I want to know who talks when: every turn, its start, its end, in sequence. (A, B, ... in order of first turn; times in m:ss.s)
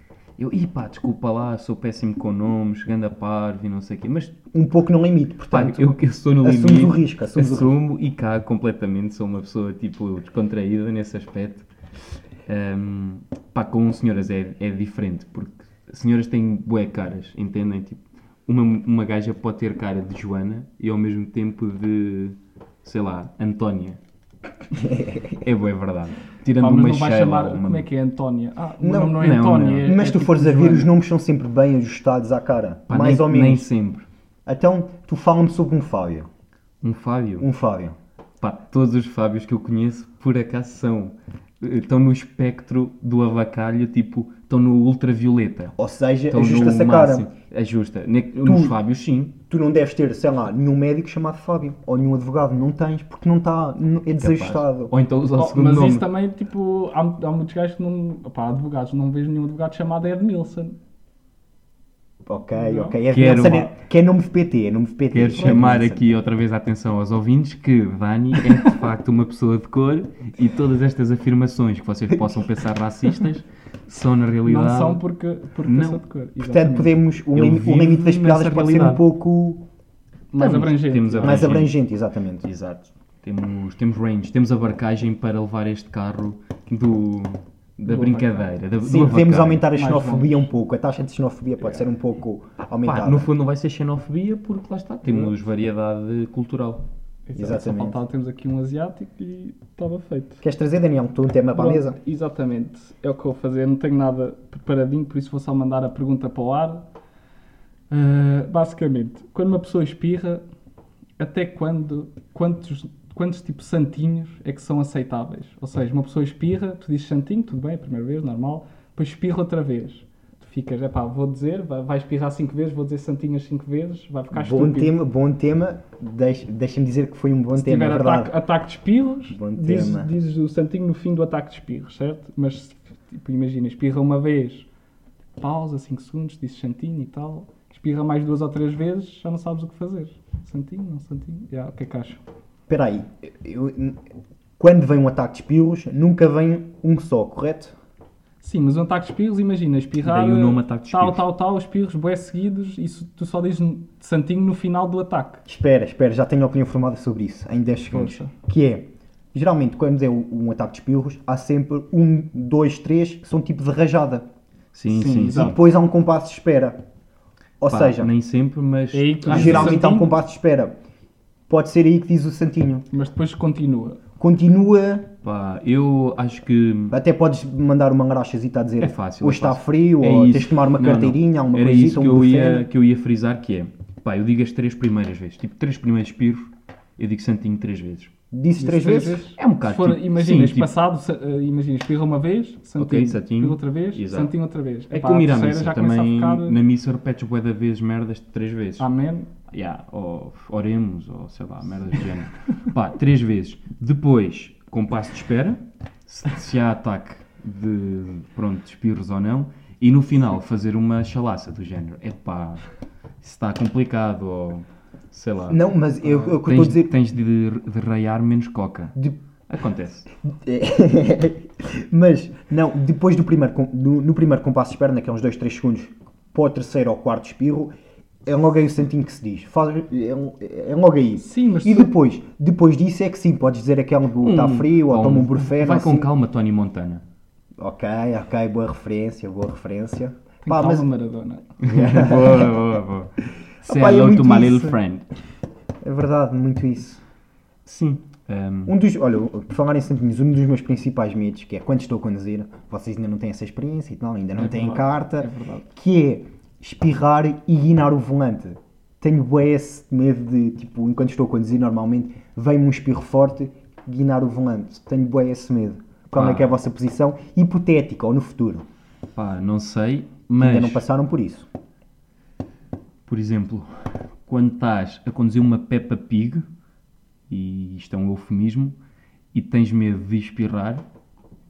0:00.4-0:04.4 A
0:04.5-0:07.8 B
0:05.5-0:11.7 A
0:12.5-0:24.0 A
0:24.7-0:25.4 B
0:25.4-0:27.9 A
0:26.6-0:30.9 C
0:28.8-0:29.2 B
0:29.2-0:29.9 A
0:29.8-0:33.7 B
0:32.9-0:34.0 A
0:34.4-0:36.3 B
0:36.8-0:37.5 A
0:37.4-0:38.0 B
0:38.4-0:45.7 A
0:45.8-0:47.3 B
0:46.3-0:49.4 A
0:48.4-0:48.7 B
0:49.5-0:54.9 B
0:54.2-0:56.1 A
0:55.3-1:00.7 C
1:02.2-1:06.1 B
1:02.5-1:03.0 C
1:03.1-1:03.7 A
1:05.1-1:15.0 A
1:05.3-1:05.6 C
1:14.4-1:17.0 C
1:15.6-1:16.0 A
1:16.4-1:19.6 B
1:17.3-1:19.0 A
1:20.3-1:21.5 C
1:20.4-1:21.8 A
1:21.2-1:22.4 B
1:22.4-1:29.6 A
1:27.8-1:28.5 C
1:28.8-1:33.3 B
1:29.7-1:30.5 C
1:32.8-1:36.8 A
1:35.0-1:35.3 C
1:37.3-1:40.4 C
1:37.3-1:38.0 B
1:40.4-1:42.0 B
1:41.5-1:46.8 C
1:47.9-1:50.4 C
1:51.2-2:04.9 C
2:04.3-2:08.4 B
2:07.5-2:14.7 C
2:09.3-2:10.1 B
2:15.4-2:22.2 C
2:22.7-2:24.0 B
2:24.6-2:27.8 B
2:28.4-2:35.4 C
2:30.0-2:31.2 A
2:35.4-2:44.3 B
2:37.9-2:38.3 C
2:44.7-2:45.6 A
2:44.9-2:45.6 C
2:45.2-2:46.8 B
2:47.6-2:48.1 B
2:47.7-2:49.8 A
2:48.9-2:50.1 C
2:49.3-2:50.7 B
2:51.5-2:52.8 B
2:52.9-2:54.0 C
2:54.2-2:55.1 B
2:55.2-2:57.0 A
2:56.9-3:02.7 B
2:58.8-3:08.1 A
3:08.3-3:09.3 B
3:08.6-3:16.6 C
3:09.4-3:10.7 A
3:12.8-3:14.3 A
3:14.9-3:18.9 A
3:18.8-3:19.3 C
3:19.5-3:32.6 A
3:33.2-3:38.9 A
3:35.5-3:36.9 B
3:39.5-3:40.1 A
3:40.3-3:47.7 B
3:48.2-3:56.1 B
3:51.2-3:51.9 C
3:54.2-3:57.0 A
3:57.6-4:00.9 B
4:00.4-4:01.5 C
4:01.6-4:03.1 A
4:01.7-4:02.6 B
4:03.6-4:04.8 B
4:03.6-4:05.0 A
4:05.8-4:07.0 B
4:07.6-4:08.8 A
4:08.6-4:28.6 B
4:14.4-4:15.7 C
4:26.1-4:26.5 A
4:29.1-4:30.8 A
4:30.4-4:31.5 B
4:33.0-4:36.4 A
4:37.3-4:38.8 A
4:39.3-4:40.8 A